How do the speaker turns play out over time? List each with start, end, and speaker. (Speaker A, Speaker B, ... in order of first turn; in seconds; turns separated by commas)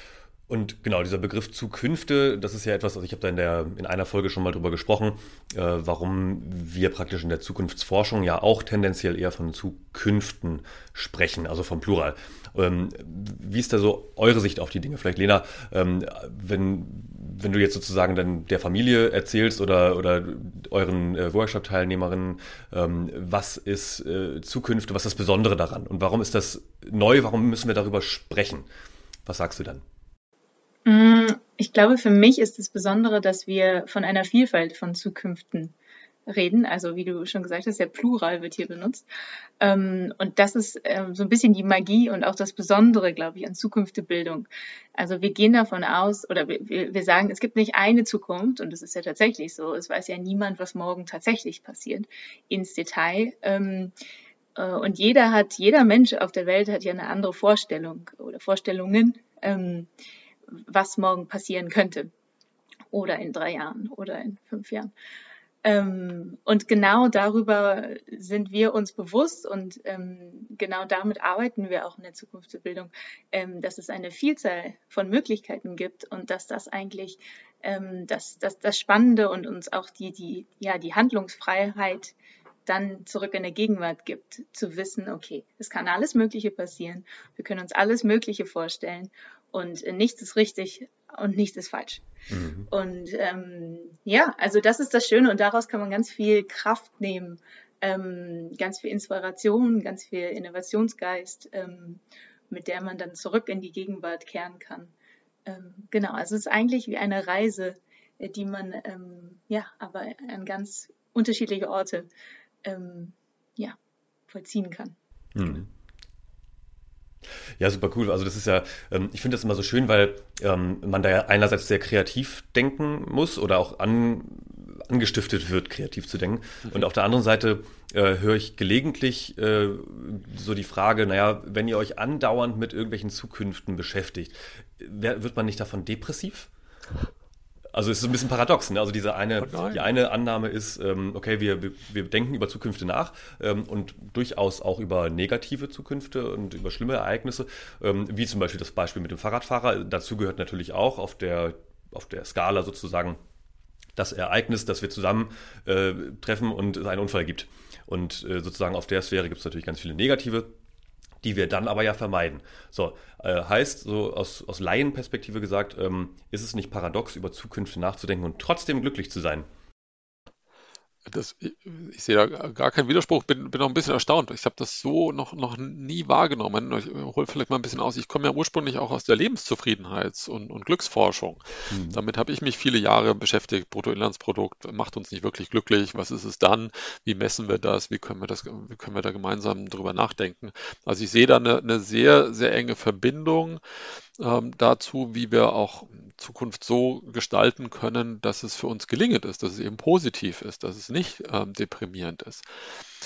Speaker A: 0.5-28.7, Speaker A: 29.2-29.8, Speaker B: 30.9-35.8, Speaker B: 36.3-39.0, Speaker B: 39.6-53.9, Speaker B: 54.6-59.9, Speaker B: 60.5-62.1, Speaker B: 62.9-64.9, Speaker B: 65.6-82.1, Speaker B: 82.7-92.0, Speaker A: 92.3-92.7, Speaker B: 92.7-104.9, Speaker B: 105.5-112.1, Speaker B: 112.6-113.8, Speaker B: 114.3-115.0, Speaker A: 115.3-115.7, Speaker A: 117.6-136.5, Speaker A: 137.7-153.2, Speaker C: 139.4-139.9, Speaker A: 153.9-160.5, Speaker A: 161.2-169.5, Speaker C: 171.1-193.6, Speaker A: 181.7-182.0, Speaker C: 194.2-202.4